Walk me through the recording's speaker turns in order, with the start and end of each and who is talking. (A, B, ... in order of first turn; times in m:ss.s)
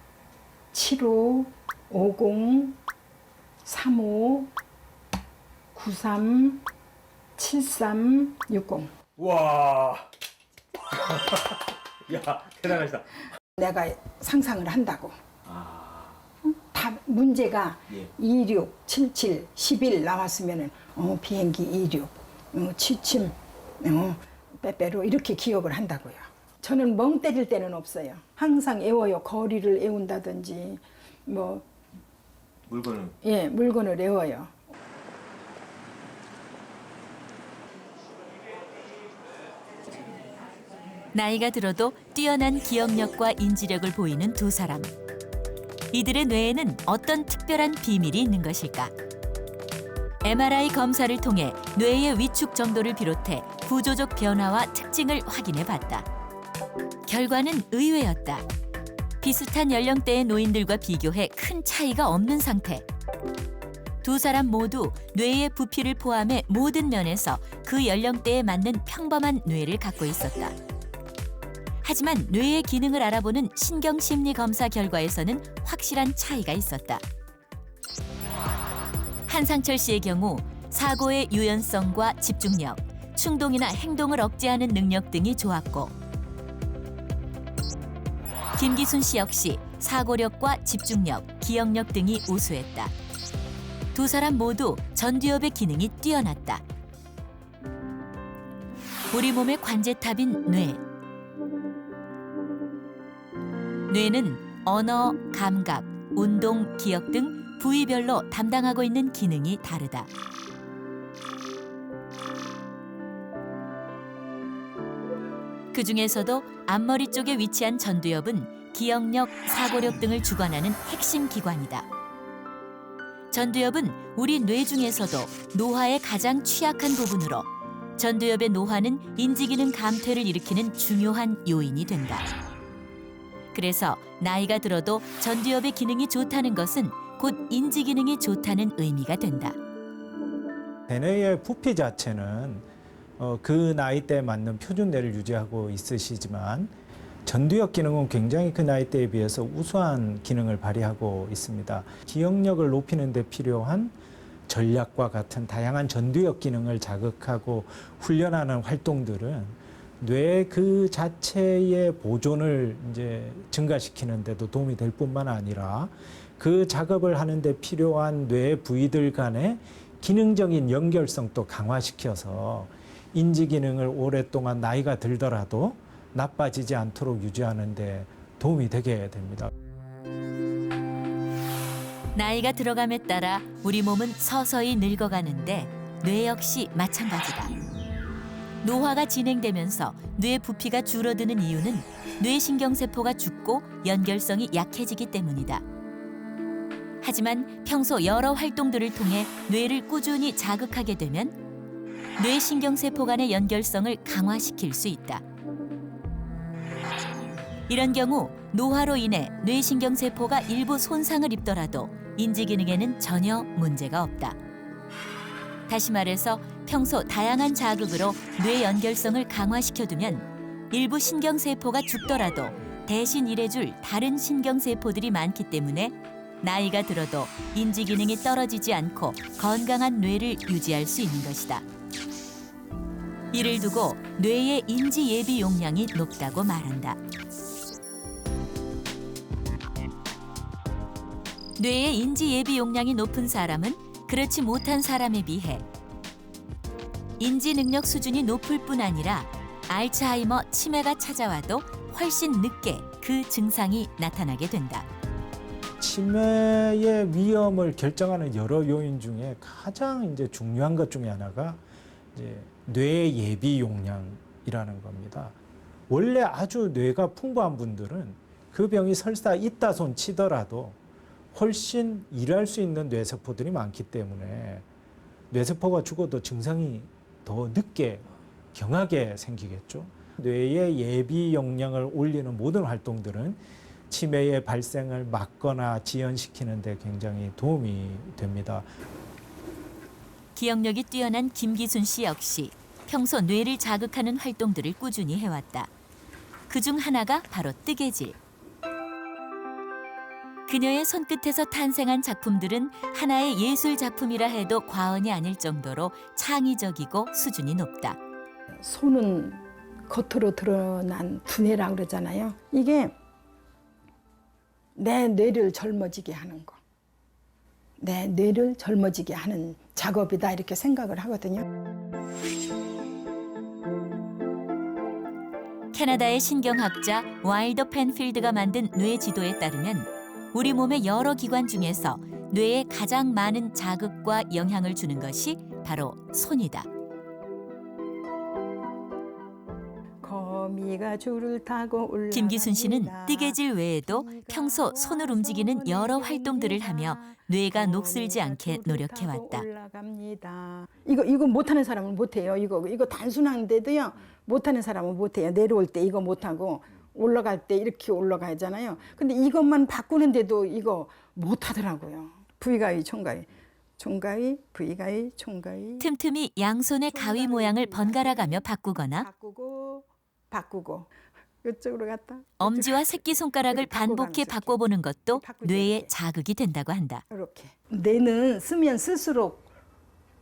0:00.7-0:02.8 A
0:03.6-0:04.5 A
0:05.8-0:06.6 A
0:07.4-0:08.9 A
0:09.2-0:10.1 B
0:11.0-0:13.2 B
0:13.6-0:15.2 A
0:15.5-0:16.1 B
0:16.4-0:31.6 A
0:32.7-0:33.2 B
0:33.2-0:34.5 A
0:41.1-0:44.9 C
0:45.9-0:48.9 C
0:50.2-0:56.1 C
0:57.1-0:58.4 C
0:59.2-1:02.9 C
1:04.0-1:10.6 C
1:11.8-1:17.0 C
1:19.3-1:25.9 C
1:28.6-1:32.9 C
1:33.9-1:36.6 C
1:39.1-1:40.8 C
1:43.9-1:50.1 C
1:55.7-2:01.9 C
2:03.3-2:12.3 C
2:13.5-2:19.6 C
2:20.9-2:22.7 D
2:23.2-2:26.7 D
2:27.3-2:34.0 D
2:34.5-2:59.5 D
3:02.2-3:07.5 C
3:08.6-3:15.6 C
3:17.0-3:21.4 C
3:22.2-3:25.2 C
3:27.7-3:34.4 C
3:35.7-3:51.6 C
3:53.3-3:57.0 C
4:01.6-4:05.6 C
4:07.2-4:14.9 C
4:15.8-4:21.6 D
4:22.1-4:25.4 D
4:25.9-4:30.8 D
4:31.3-4:34.6 D
4:35.3-4:48.7 D
4:50.4-4:55.7 C
4:56.5-4:58.2 C
5:00.5-5:08.0 C
5:08.6-5:12.9 A
5:14.8-5:16.6 A
5:17.8-5:21.4 A
5:25.7-5:36.7 C
5:40.0-6:05.9 A
5:42.1-5:49.5 C
6:05.8-6:09.1 C
6:06.9-6:10.9 A
6:11.4-6:15.9 A
6:12.4-6:17.0 C
6:17.1-6:19.4 A